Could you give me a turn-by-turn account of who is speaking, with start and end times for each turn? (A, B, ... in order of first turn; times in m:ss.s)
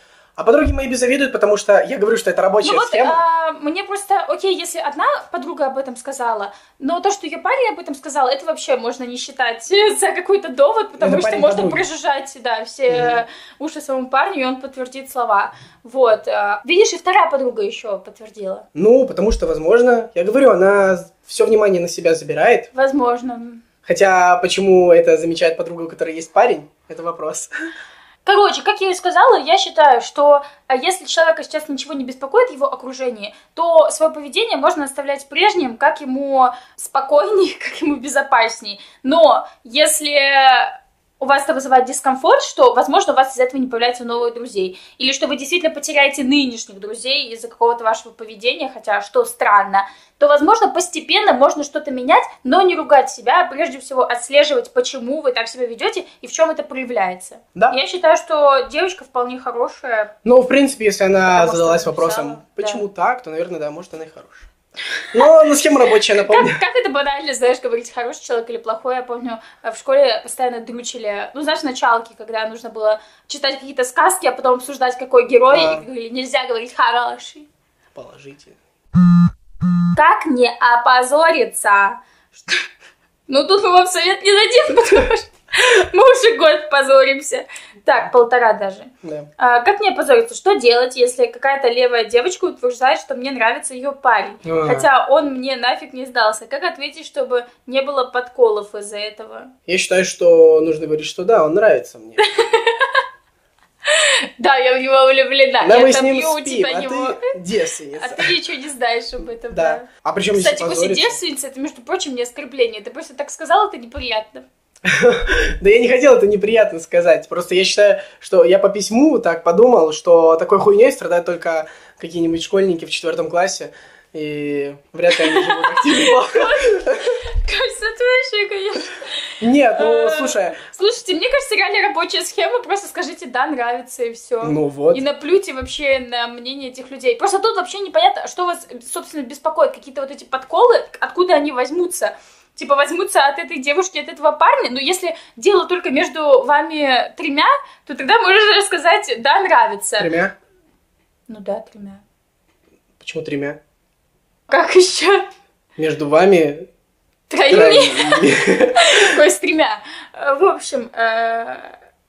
0:00.4-0:03.2 A
0:02.6-0:18.6 B
0:11.0-0:11.8 A
0:12.9-0:13.2 A
0:18.7-0:22.7 A
0:22.7-0:23.6 B
0:23.8-0:27.5 A
0:28.2-1:00.1 B
1:00.2-1:04.5 A
1:01.3-1:02.8 B
1:05.1-1:06.6 A
1:06.2-1:17.5 B
1:15.5-1:15.8 A
1:17.9-1:18.6 A
1:19.9-1:22.6 B
1:23.3-1:39.5 B
1:29.0-1:29.3 A
1:34.4-1:34.9 A
1:39.7-1:42.2 A
1:42.2-1:43.0 B
1:43.8-1:47.3 B
1:45.6-1:48.3 A
1:48.0-1:54.4 B
1:49.5-1:51.2 A
1:54.8-2:07.0 A
2:05.1-2:30.1 B
2:09.4-2:10.6 A
2:14.4-2:15.0 A
2:30.0-2:30.3 A
2:31.3-2:32.0 B
2:33.0-2:33.6 A
2:34.5-2:35.2 B
2:35.8-2:36.7 A
2:37.3-2:41.8 B
2:37.5-2:39.0 A